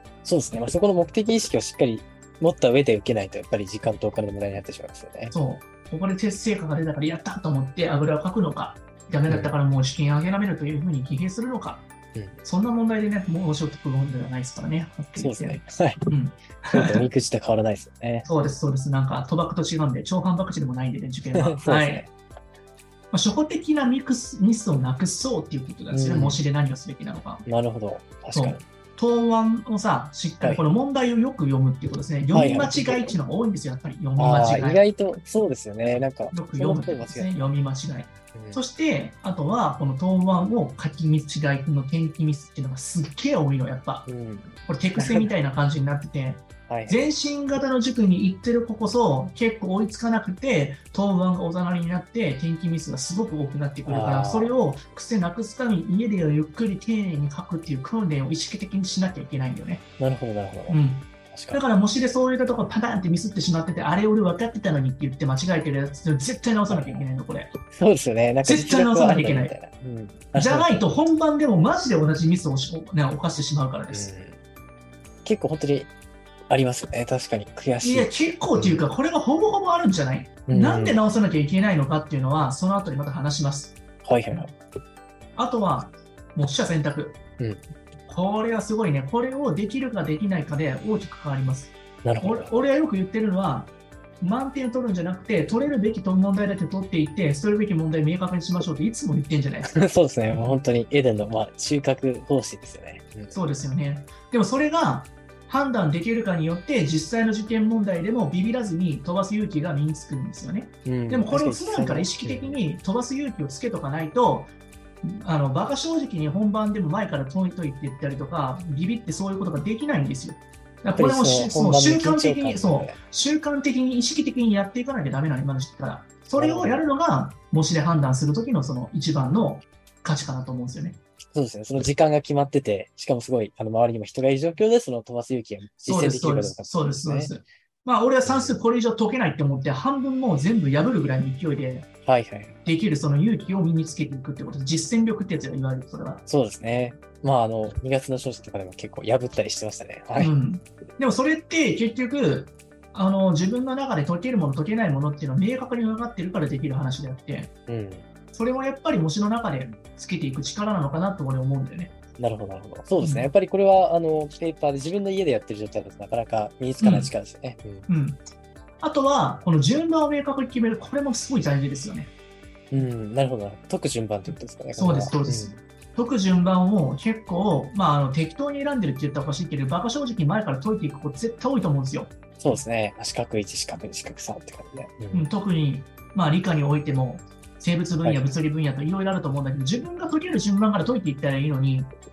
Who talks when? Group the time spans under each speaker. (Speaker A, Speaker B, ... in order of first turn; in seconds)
Speaker A: 0.2-5.3, 9.3-9.5, 15.2-16.0, 16.7-18.3, 21.4-22.1, 25.9-26.4, 27.5-28.6, 30.4-30.7, 32.3-33.2, 34.2-37.3, 38.3-38.6, 44.1-45.3, 46.7-47.1, 53.9-54.6, 60.0-61.6, 66.7-67.1, 67.7-71.0, 73.9-74.4, 75.2-75.9, 76.5-78.8, 80.5-81.0, 84.0-84.5, 87.4-87.6, 92.0-92.6, 99.7-103.4, 110.9-112.6, 121.0-123.0, 126.4-126.8, 131.3-137.3, 138.2-138.6, 142.1-142.6, 146.3-150.3, 157.7-158.1, 162.2-167.9, 172.7-175.6, 182.4-185.3
Speaker B: 5.3-11.9, 12.4-17.1, 18.2-22.1, 23.1-27.4, 28.3-34.8, 36.3-44.1, 44.7-59.8, 60.7-67.6, 68.4-69.5, 70.3-74.1, 77.8-83.8, 85.4-87.2, 88.1-99.8, 103.3-114.5, 115.0-131.0, 135.9-141.9, 142.7-146.2, 150.2-157.5, 158.3-161.9, 163.0-163.3, 166.8-167.1, 167.9-168.2, 168.8-172.1, 174.7-182.1, 185.1-191.9